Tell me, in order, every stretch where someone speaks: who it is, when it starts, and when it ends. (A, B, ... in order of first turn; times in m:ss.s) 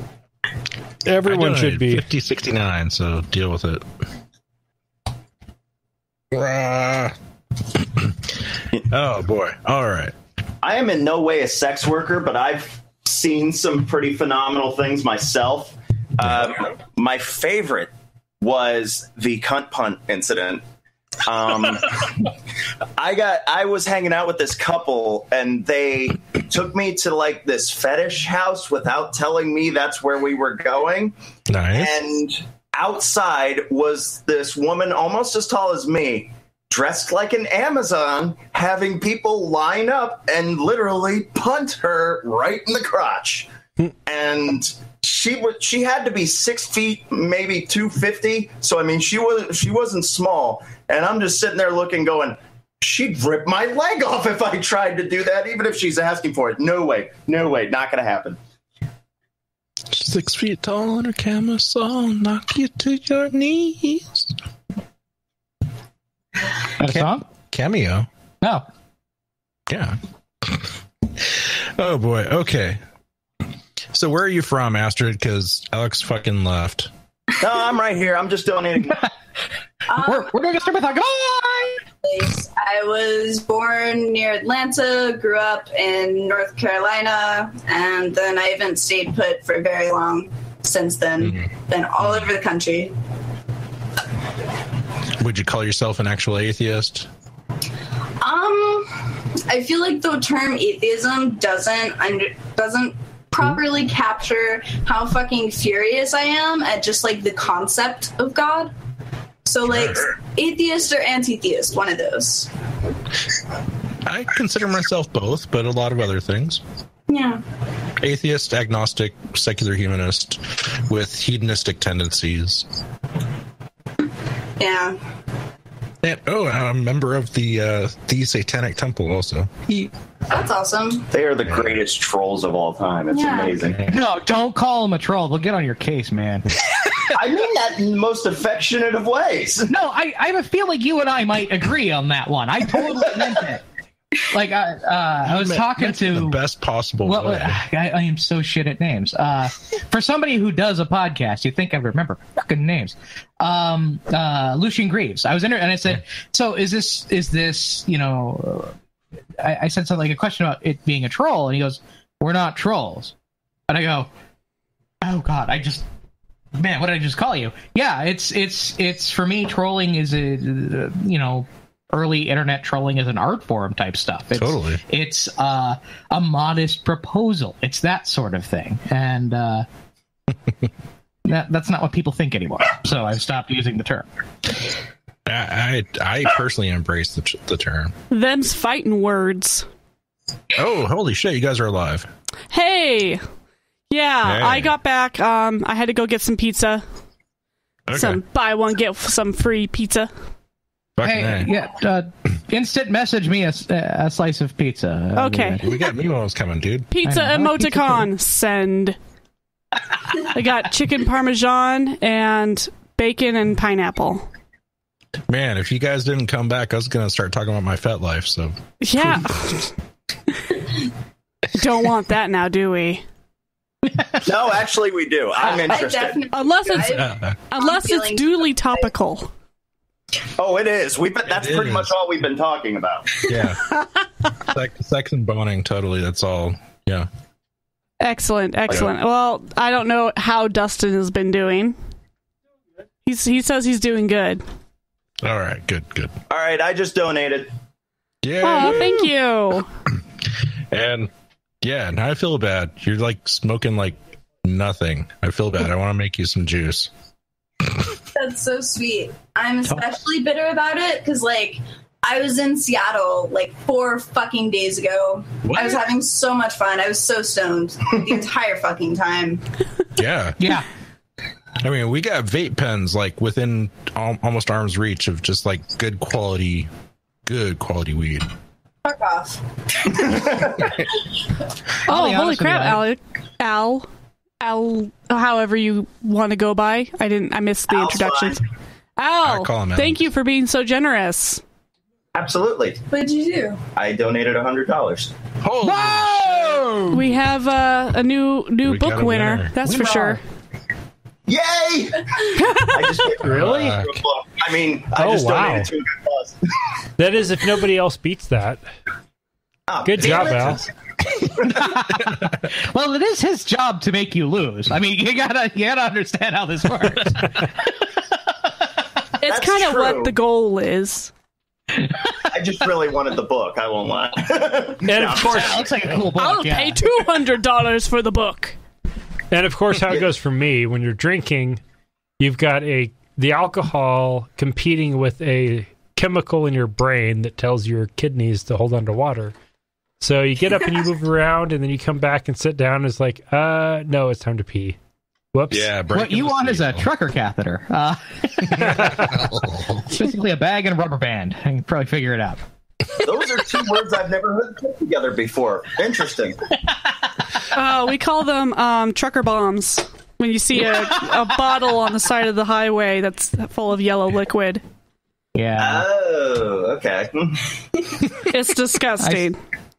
0:01.0-0:02.1 A
0:01.2-0:03.8 B
0:06.3-0:07.1 B
0:07.8-0:08.1 B
0:08.9-0:10.1 B
0:10.6-0:17.9 C
0:18.4-0:20.6 C
0:21.2-0:22.0 C
0:23.0-0:31.1 C
0:31.5-0:32.0 B
0:31.7-0:43.5 C
0:44.0-0:58.4 C
0:59.9-1:04.3 B
1:06.8-1:07.3 D
1:06.8-1:08.1 B
1:09.7-1:10.7 B
1:11.2-1:12.8 B
1:13.9-1:16.9 B
1:17.4-1:19.1 C
1:19.9-1:20.3 E
1:20.0-1:21.8 D
1:22.0-1:32.9 E
1:32.0-1:32.3 B
1:35.2-1:37.1 B
1:38.2-1:48.7 E
1:49.4-1:52.5 E
1:49.7-1:50.0 B
1:54.0-1:56.6 B
1:57.1-1:57.4 E
1:58.0-2:02.6 B
2:04.6-2:05.0 E
2:06.0-2:09.5 B
2:10.3-2:11.0 E
2:11.1-2:13.9 C
2:13.1-2:13.6 E
2:13.9-2:16.6 D
2:17.1-2:19.7 C
2:19.7-2:23.6 D
2:24.3-2:26.4 D
2:25.3-2:27.6 B
2:27.0-2:38.7 D
2:39.4-2:43.1 D
2:43.7-2:44.1 D
2:45.0-2:45.8 D
2:46.5-2:59.6 D
2:54.4-2:54.8 B
3:01.2-3:04.1 D
3:05.2-3:07.9 B
3:08.1-3:09.6 F
3:10.6-3:12.1 B
3:12.5-3:13.2 F
3:13.9-3:16.8 F
3:14.2-3:14.7 B
3:17.9-3:18.2 B
3:17.9-3:20.1 F
3:21.0-3:21.5 B
3:21.0-3:25.8 D
3:25.1-3:25.6 F
3:25.6-3:26.9 B
3:26.9-3:29.0 F
3:27.0-3:28.1 D
3:30.2-3:34.3 F
3:35.3-3:39.6 B
3:38.8-3:39.7 F
3:41.5-3:43.0 F
3:44.2-3:46.2 C
3:45.5-3:48.8 E
3:46.3-3:49.3 F
3:46.8-3:47.4 B
3:50.4-3:53.3 C
3:51.4-3:51.9 B
3:53.3-3:53.6 B
3:54.4-3:57.1 B
3:58.0-4:01.8 F
4:03.0-4:04.4 F
4:05.2-4:06.1 B
4:06.3-4:07.5 C
4:08.2-4:09.1 B
4:08.4-4:09.7 F
4:10.7-4:11.1 B
4:11.6-4:16.9 B
4:18.1-4:29.4 E
4:25.4-4:25.8 B
4:30.0-4:30.4 B
4:30.4-4:30.6 D
4:31.6-4:36.7 B
4:37.2-4:38.3 B
4:38.8-4:40.2 E
4:41.8-4:43.9 F
4:41.9-4:42.8 D
4:44.4-4:48.4 F
4:47.7-4:48.4 C
4:49.0-4:51.4 F
4:49.2-4:50.0 B
4:52.1-4:52.8 C
4:52.9-4:53.6 E
4:53.8-4:55.1 C
4:55.4-4:56.6 B
4:55.6-4:57.0 D
4:56.9-5:00.2 F
4:58.6-4:59.9 B
5:01.3-5:06.4 C
5:02.4-5:03.1 F
5:03.2-5:03.8 A
5:03.4-5:03.9 B
5:04.9-5:05.7 A
5:07.0-5:08.6 A
5:09.7-5:10.7 C
5:09.8-5:10.6 A
5:11.4-5:18.8 D
5:19.2-5:21.1 F
5:19.2-5:20.1 C
5:22.3-5:25.8 C
5:24.8-5:25.7 A
5:25.1-5:26.8 D
5:26.2-5:28.6 F
5:29.3-5:31.6 A
5:32.2-5:39.3 A
5:40.0-5:44.8 A
5:45.3-5:45.7 A
5:45.5-5:46.8 B
5:45.9-5:49.2 D
5:48.6-5:49.8 B
5:49.9-5:52.4 D
5:53.0-5:56.4 C
5:57.5-6:04.6 F
6:00.6-6:01.3 D
6:05.3-6:05.8 D
6:05.6-6:07.6 C
6:08.2-6:09.4 F
6:09.0-6:09.3 D